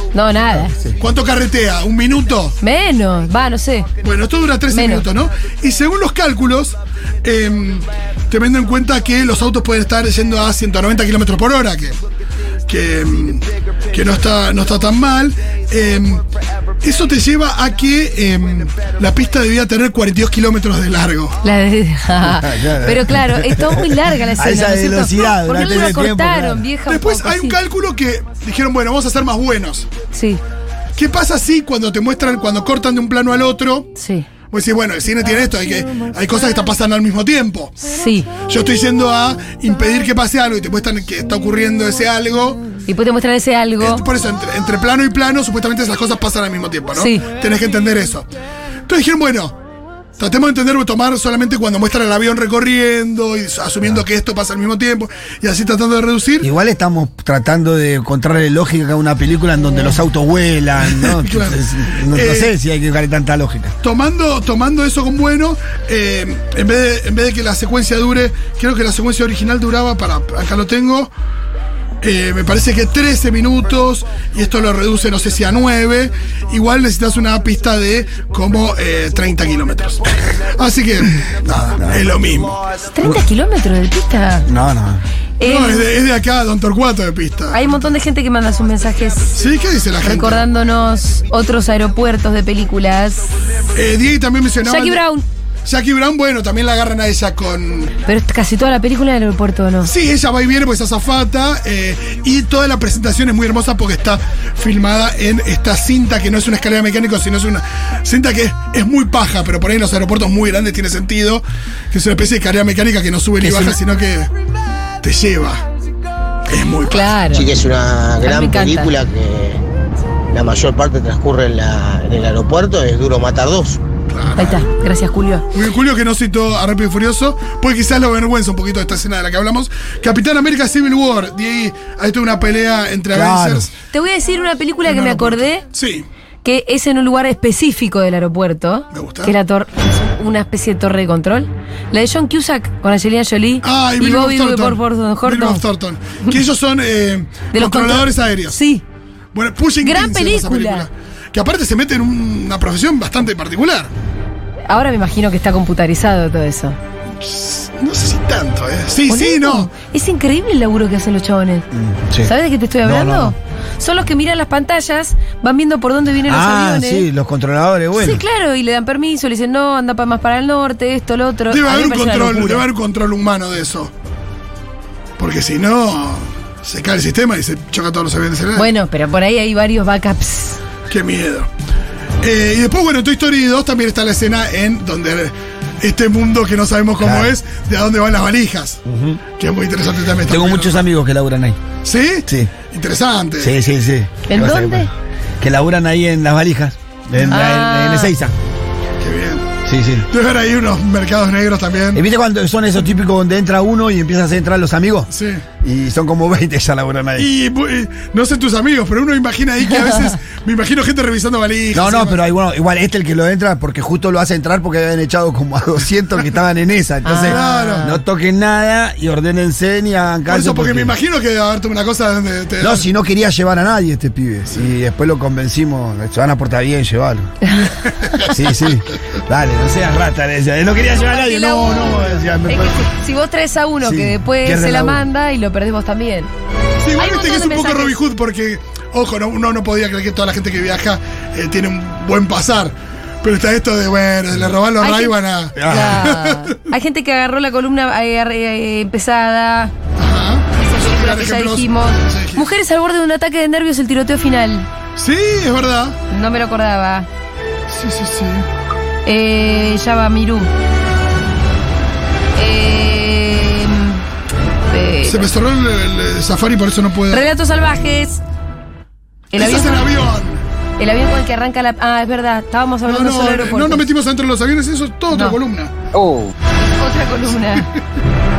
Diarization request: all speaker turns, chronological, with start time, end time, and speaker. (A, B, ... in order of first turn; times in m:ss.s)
0:00.1-0:00.8 A
0:01.0-0:02.6 B
0:02.6-0:03.9 A
0:04.0-0:12.0 B
0:04.7-0:05.0 A
0:12.7-0:16.2 B
0:16.8-0:21.4 B
0:21.4-0:27.6 A
0:22.2-0:26.6 C
0:26.9-0:29.9 B
0:30.1-0:30.4 A
0:31.0-0:33.9 B
0:34.0-0:34.3 A
0:34.5-0:42.6 B
0:37.9-0:38.3 A
0:42.9-0:44.0 A
0:43.8-0:48.3 B
0:47.0-0:47.2 A
0:48.9-0:49.6 B
0:50.2-0:56.5 B
0:56.4-1:03.8 C
1:00.9-1:02.5 B
1:03.8-1:11.1 B
1:12.0-1:22.6 B
1:21.8-1:22.1 C
1:22.9-1:24.5 A
1:24.5-1:25.0 C
1:25.4-1:25.9 A
1:25.4-1:27.8 B
1:27.5-1:29.4 A
1:29.4-1:30.5 B
1:30.0-1:33.2 A
1:33.7-1:35.0 B
1:34.6-1:35.2 A
1:35.7-1:37.9 B
1:38.0-1:39.9 A
1:39.8-1:54.3 B
1:53.4-1:53.8 C
1:55.0-1:55.6 B
1:56.5-1:57.2 B
1:56.9-1:57.5 A
1:57.3-1:59.6 D
1:58.2-1:58.9 A
2:00.3-2:03.8 D
2:04.1-2:04.7 B
2:04.4-2:05.5 A
2:05.5-2:13.7 B
2:13.1-2:13.7 C
2:13.9-2:15.6 A
2:14.8-2:16.1 B
2:16.4-2:25.6 A
2:18.9-2:19.4 B
2:23.6-2:28.6 B
2:27.5-2:28.8 A
2:29.3-2:33.9 B
2:29.8-2:30.9 A
2:34.7-2:36.8 A
2:37.2-2:39.7 B
2:39.1-2:41.7 A
2:41.7-2:43.4 C
2:42.2-2:47.1 A
2:46.3-2:48.2 C
2:48.0-2:52.7 A
2:51.5-2:53.9 B
2:55.2-2:58.7 B
2:58.6-3:00.6 A
3:00.9-3:01.5 B
3:02.2-3:08.8 B
3:07.0-3:07.4 C
3:08.9-3:09.2 C
3:09.4-3:10.8 B
3:10.3-3:11.6 C
3:11.8-3:13.6 B
3:12.3-3:12.5 C
3:13.4-3:14.9 C
3:14.3-3:14.9 A
3:15.4-3:18.3 C
3:17.3-3:18.1 A
3:19.0-3:19.5 B
3:19.6-3:20.1 C
3:20.1-3:22.0 B
3:21.9-3:27.3 C
3:25.1-3:25.4 B
3:27.2-3:32.2 B
3:31.7-3:41.0 C
3:37.0-3:37.9 A
3:37.2-3:38.0 B
3:40.3-3:42.9 B
3:42.6-3:47.3 C
3:47.7-3:48.3 B
3:48.2-3:52.9 C
3:51.0-3:56.3 A
3:53.8-3:55.1 C
3:56.8-4:06.6 B
3:57.0-3:58.0 A
4:04.8-4:09.7 A
4:05.6-4:06.2 C
4:10.0-4:12.5 B
4:10.6-4:14.7 A
4:15.0-4:16.0 B
4:16.1-4:17.1 A
4:17.7-4:18.5 B
4:19.0-4:20.5 A
4:22.4-4:24.0 A
4:24.7-4:25.3 A
4:25.0-4:27.3 B
4:27.1-4:28.2 A
4:29.3-4:29.9 A
4:29.3-4:30.4 B
4:30.8-4:33.9 A
4:32.8-4:35.8 B
4:35.1-4:35.4 A
4:36.6-4:37.7 A